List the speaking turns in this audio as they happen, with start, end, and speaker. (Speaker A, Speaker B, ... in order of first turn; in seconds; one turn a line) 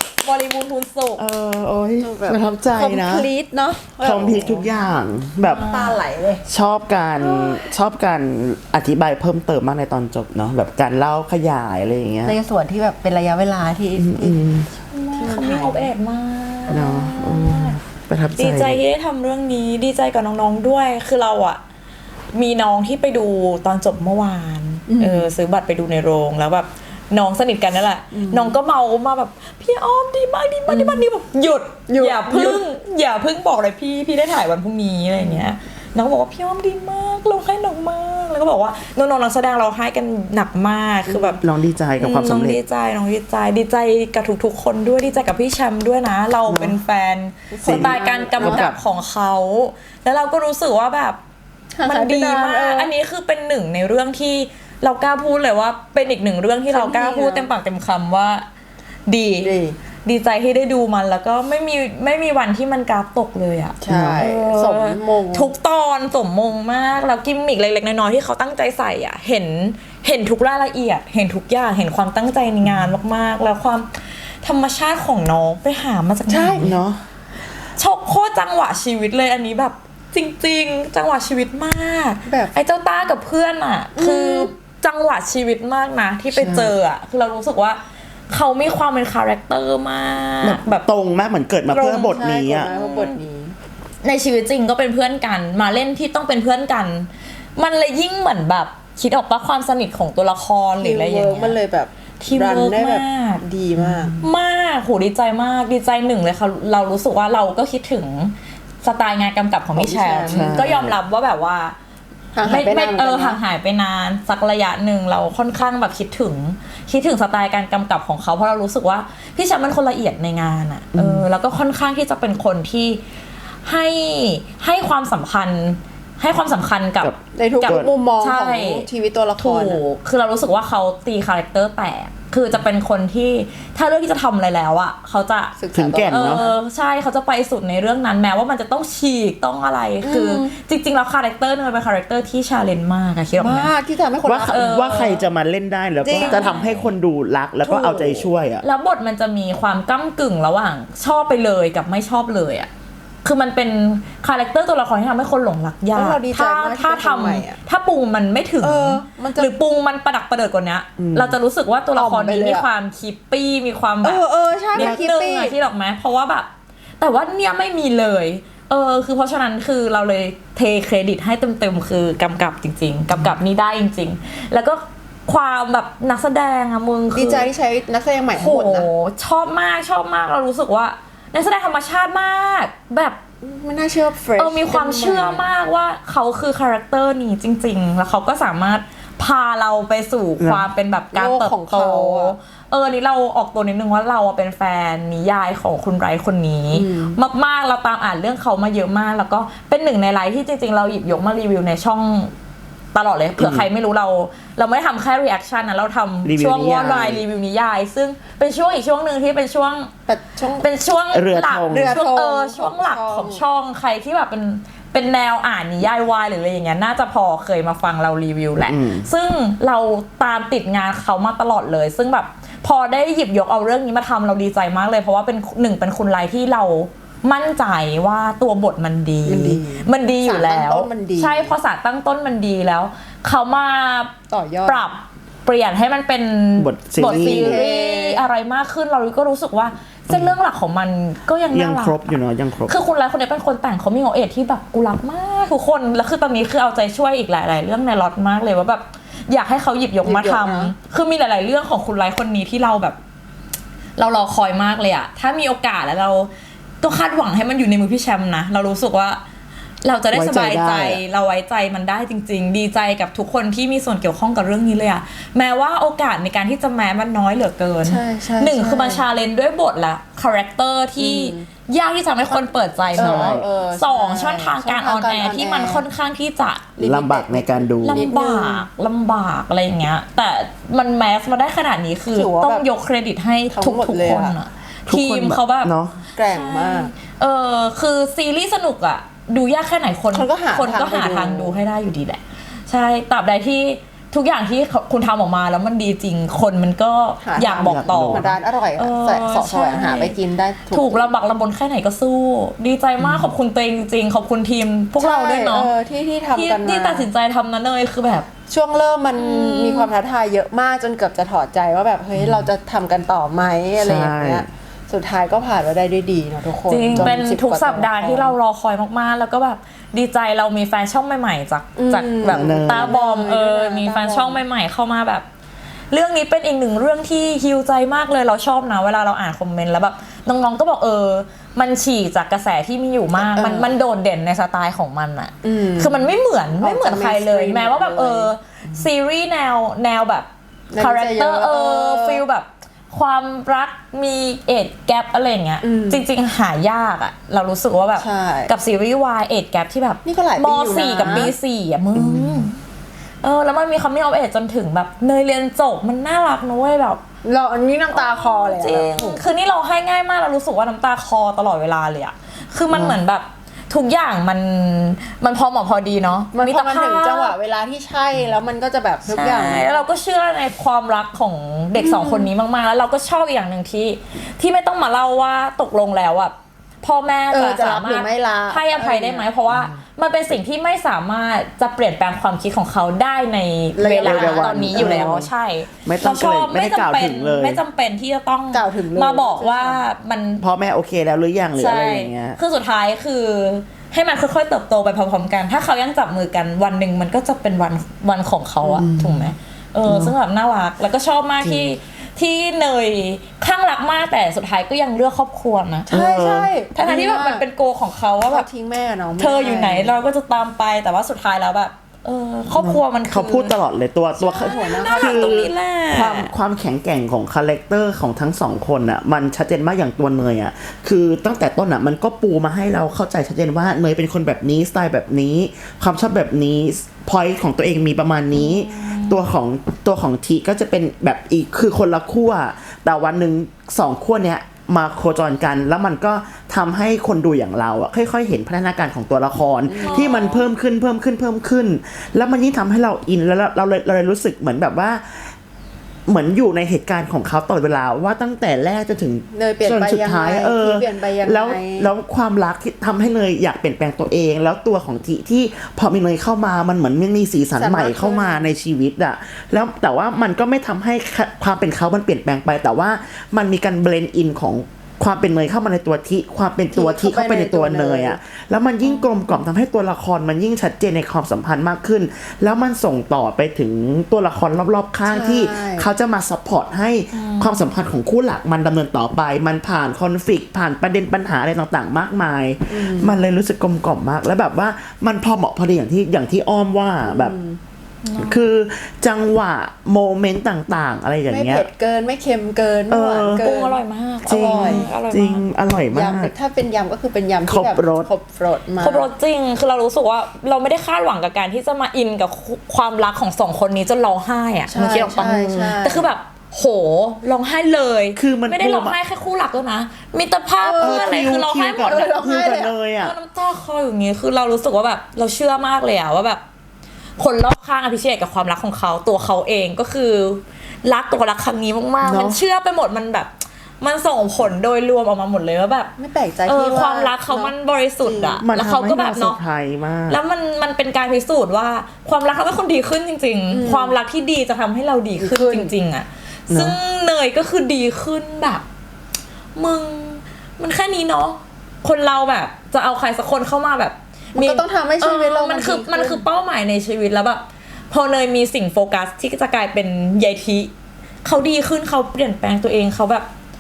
Speaker A: 0.2-1.2
Speaker B: 1.2-3.3
Speaker C: 2.0-4.8
Speaker B: 4.0-5.7
Speaker A: 5.4-6.0
Speaker C: 5.5-6.4
Speaker B: 6.5-12.3
Speaker C: 7.2-7.6
Speaker C: 12.2-14.4
Speaker B: 14.0-14.7
Speaker A: 14.9-17.8
Speaker C: 15.2-15.9
Speaker B: 16.7-18.8
Speaker A: 18.4-21.6
Speaker A: 22.3-41.4
Speaker C: 24.9-25.3
Speaker C: 28.1-28.6
Speaker C: 30.7-31.1
Speaker C: 31.9-32.6
Speaker C: 41.1-41.4
Speaker B: 41.4-42.6
Speaker A: 42.0-51.2
Speaker B: 46.5-46.8
Speaker C: 47.5-48.7
Speaker B: 47.6-48.8
Speaker C: 51.8-52.9
Speaker A: 51.8-58.5
Speaker C: 56.7-57.5
Speaker A: 59.1-73.9
Speaker C: 59.4-59.8
Speaker C: 63.8-65.5
Speaker B: 63.9-64.3
Speaker A: 74.4-76.8
Speaker C: 76.3-76.7
Speaker B: 76.5-77.0
Speaker A: 77.8-90.8
Speaker C: 82.3-82.6
Speaker C: 84.0-84.5
Speaker B: 86.3-86.7
Speaker B: 90.4-92.7
Speaker A: 91.7-92.2
Speaker C: 92.1-93.6
Speaker A: 92.7-93.2
Speaker A: 94.0-101.6
Speaker C: 100.8-104.2
Speaker A: 102.2-103.4
Speaker A: 104.2-111.8
Speaker C: 109.8-110.5
Speaker B: 110.3-111.0
Speaker C: 112.3-113.4
Speaker A: 112.4-123.0
Speaker B: 121.0-121.2
Speaker A: 123.6-128.9
Speaker B: 127.0-127.9
Speaker C: 127.3-129.8
Speaker A: 129.4-135.6
Speaker C: 135.6-136.6
Speaker B: 135.7-136.4
Speaker A: 136.1-143.7
Speaker C: 140.0-140.5
Speaker C: 143.4-144.8
Speaker B: 144.2-148.6
Speaker A: 144.5-145.3
Speaker A: 146.0-146.9
Speaker C: 146.2-146.5
Speaker A: 147.6-152.7
Speaker A: 153.2-166.5
Speaker C: 155.9-157.6
Speaker C: 158.6-159.5
Speaker B: 161.0-161.4
Speaker C: 161.9-162.7
Speaker C: 164.0-165.6
Speaker B: 164.8-165.0
Speaker A: 167.0-177.5
Speaker C: 177.1-178.9
Speaker A: 178.3-183.2
Speaker C: 183.4-185.5
Speaker A: 184.4-202.3
Speaker B: 190.4-190.7
Speaker C: 191.1-192.3
Speaker C: 196.7-197.2
Speaker A: 202.9-209.9
Speaker B: 203.4-203.7
Speaker B: 206.2-207.2
Speaker C: 210.1-210.7
Speaker A: 210.6-234.1
Speaker B: 211.1-212.0
Speaker C: 211.7-213.4
Speaker B: 218.7-219.1
Speaker C: 229.3-231.5
Speaker C: 234.3-234.8
Speaker A: 234.7-253.0
Speaker B: 236.6-237.6
Speaker C: 237.0-238.2
Speaker B: 240.1-240.4
Speaker B: 241.5-242.8
Speaker C: 250.0-250.8
Speaker A: 254.0-259.2
Speaker A: 259.8-285.7
Speaker B: 260.1-261.0
Speaker C: 267.8-269.0
Speaker C: 271.0-271.5
Speaker C: 272.9-275.9
Speaker B: 272.9-273.5
Speaker B: 276.8-278.1
Speaker C: 277.9-278.7
Speaker C: 282.1-282.7
Speaker C: 283.5-284.4
Speaker B: 284.9-286.1
Speaker C: 286.1-286.9
Speaker A: 286.3-300.1
Speaker C: 290.1-291.6
Speaker C: 297.2-301.1
Speaker B: 297.6-298.4
Speaker A: 300.7-305.7
Speaker B: 303.0-303.3
Speaker C: 305.0-307.1
Speaker A: 306.3-308.3
Speaker C: 308.5-318.4
Speaker A: 309.1-309.9
Speaker B: 312.2-312.5
Speaker B: 313.8-314.5
Speaker A: 316.7-325.3
Speaker B: 316.9-317.2
Speaker C: 321.8-324.4
Speaker B: 322.3-322.9
Speaker A: 325.9-352.6
Speaker C: 333.2-333.8
Speaker C: 335.4-336.1
Speaker C: 336.6-338.3
Speaker C: 340.7-342.2
Speaker C: 345.6-346.0
Speaker C: 348.0-348.5
Speaker C: 350.0-351.3
Speaker B: 351.0-351.3
Speaker B: 351.9-352.4
Speaker A: 353.2-357.0
Speaker C: 357.2-359.2
Speaker A: 357.9-367.4
Speaker B: 362.7-363.0
Speaker C: 366.3-369.8
Speaker A: 369.1-390.4
Speaker C: 371.8-372.3
Speaker C: 377.3-379.3
Speaker C: 383.8-385.2
Speaker B: 384.0-385.3
Speaker B: 385.9-387.6
Speaker C: 388.5-389.8
Speaker B: 390.4-392.4
Speaker A: 391.6-405.9
Speaker B: 398.8-399.3
Speaker B: 399.9-400.1
Speaker B: 401.4-401.7
Speaker C: 405.9-407.4
Speaker B: 405.9-406.5
Speaker A: 406.7-408.5
Speaker C: 408.3-410.0
Speaker A: 409.2-413.5
Speaker B: 412.6-445.3
Speaker C: 414.2-415.3
Speaker A: 414.3-416.3
Speaker A: 428.3-429.2
Speaker C: 439.7-440.2
Speaker A: 439.8-440.5
Speaker B: 446.1-487.4
Speaker C: 449.3-451.9
Speaker C: 457.6-458.5
Speaker C: 466.7-468.2
Speaker A: 468.8-469.2
Speaker C: 475.1-475.9
Speaker A: 477.1-477.7
Speaker C: 482.7-483.1
Speaker C: 487.1-487.6
Speaker A: 488.0-488.5
Speaker B: 488.2-491.7
Speaker C: 491.3-493.8
Speaker B: 492.9-493.5
Speaker A: 493.4-495.5
Speaker B: 494.2-496.3
Speaker C: 494.3-494.9
Speaker C: 495.9-499.1
Speaker B: 497.5-498.1
Speaker A: 498.8-512.1
Speaker C: 504.7-506.1
Speaker B: 508.2-509.0
Speaker C: 510.6-512.7
Speaker B: 510.8-513.1
Speaker A: 513.0-516.4
Speaker A: 517.2-525.9
Speaker B: 522.0-522.4
Speaker C: 526.0-528.4
Speaker A: 526.5-529.4
Speaker B: 528.4-530.2
Speaker A: 530.1-538.6
Speaker C: 533.5-534.0
Speaker C: 535.2-535.7
Speaker B: 536.5-536.8
Speaker A: 539.6-550.7
Speaker C: 544.4-546.2
Speaker A: 551.2-553.3